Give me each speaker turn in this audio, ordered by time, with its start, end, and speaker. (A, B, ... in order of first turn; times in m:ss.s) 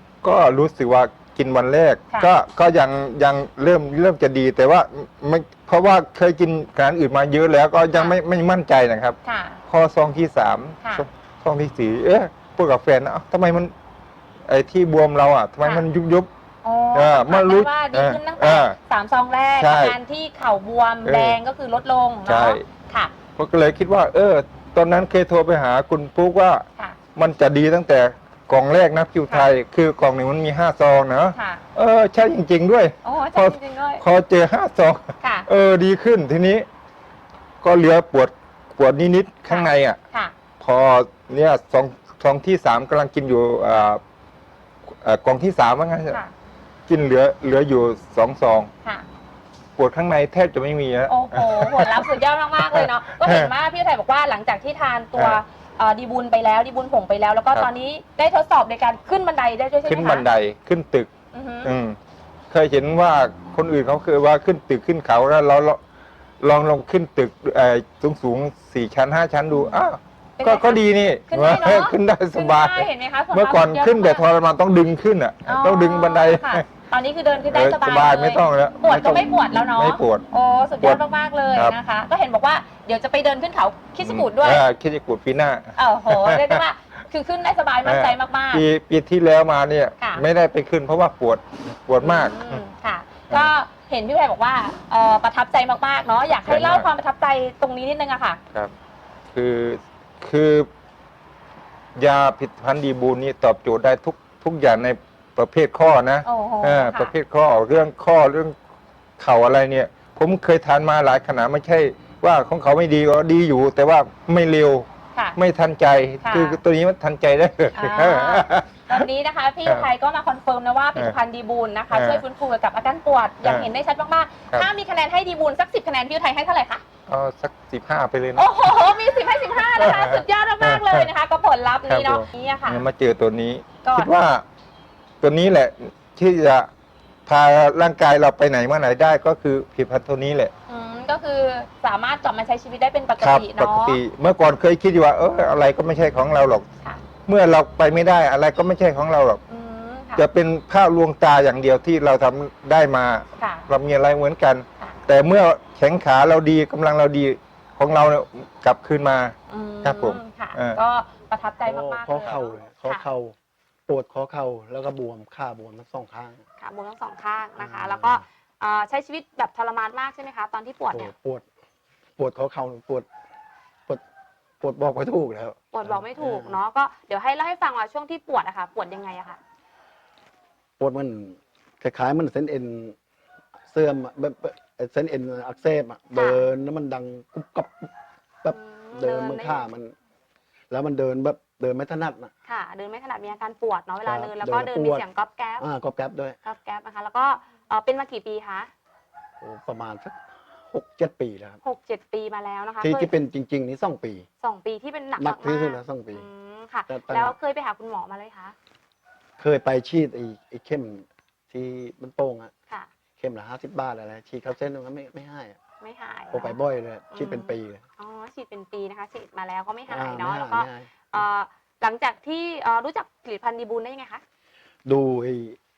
0:00.2-0:13.7 A
0:07.9-0:08.2 B
0:09.2-0:09.6 B
0:14.5-0:16.3 A
0:16.6-0:23.1 B
0:16.9-0:18.8 A
0:19.6-0:20.0 A
0:21.0-0:21.4 A
0:22.2-0:22.6 A
0:23.4-0:36.7 A
0:31.3-0:31.6 B
0:33.0-0:34.0 B
0:35.2-0:35.5 B
0:37.6-0:40.0 A
0:39.5-0:40.3 B
0:40.6-0:44.0 A
0:45.0-0:46.2 A
0:46.9-0:48.7 A
0:49.8-0:52.1 A
0:51.1-1:00.3 B
0:52.7-0:53.5 A
0:59.8-1:01.1 A
1:01.3-1:01.7 B
1:01.6-1:02.0 A
1:02.5-1:05.8 A
1:06.4-1:16.6 A
1:10.4-1:14.2 B
1:15.4-1:24.6 B
1:17.5-1:20.2 A
1:24.0-1:26.6 A
1:25.8-1:28.6 B
1:27.8-1:32.6 A
1:30.0-1:30.2 B
1:32.0-1:38.4 B
1:36.4-1:36.9 A
1:39.3-1:40.7 A
1:42.0-1:48.6 A
1:46.2-1:47.1 B
1:49.2-1:59.0 A
1:56.2-1:56.6 B
1:57.8-2:06.8 B
2:01.9-2:02.2 A
2:03.4-2:03.7 A
2:07.1-2:08.4 A
2:08.3-2:12.8 B
2:09.8-2:11.1 A
2:11.9-2:14.4 A
2:13.8-2:14.1 B
2:15.2-2:16.7 A
2:17.3-2:20.5 A
2:20.7-2:24.0 B
2:23.2-2:26.6 A
2:27.3-2:29.4 A
2:29.5-2:30.2 B
2:30.2-2:40.8 A
2:33.4-2:33.7 B
2:39.5-2:43.1 B
2:41.6-2:43.3 C
2:43.9-2:46.4 C
2:46.6-2:51.1 B
2:47.6-2:48.2 C
2:50.9-2:51.4 C
2:52.2-2:53.1 C
2:54.6-2:56.6 C
2:55.7-2:59.4 B
3:00.8-3:03.0 C
3:03.7-3:07.9 C
3:06.1-3:06.4 B
3:08.4-3:09.9 C
3:08.5-3:09.7 B
3:10.7-3:12.3 C
3:12.4-3:15.7 B
3:14.0-3:15.0 C
3:15.6-3:16.4 C
3:16.4-3:18.7 B
3:19.4-3:20.2 C
3:20.7-3:21.6 C
3:21.6-3:23.1 B
3:22.8-3:24.3 C
3:24.4-3:28.6 B
3:25.2-3:26.3 C
3:26.9-3:27.4 C
3:29.4-3:32.5 C
3:33.2-3:35.6 C
3:35.8-3:36.6 B
3:36.3-3:37.8 C
3:37.1-3:44.2 B
3:39.9-3:41.2 C
3:44.8-3:45.6 C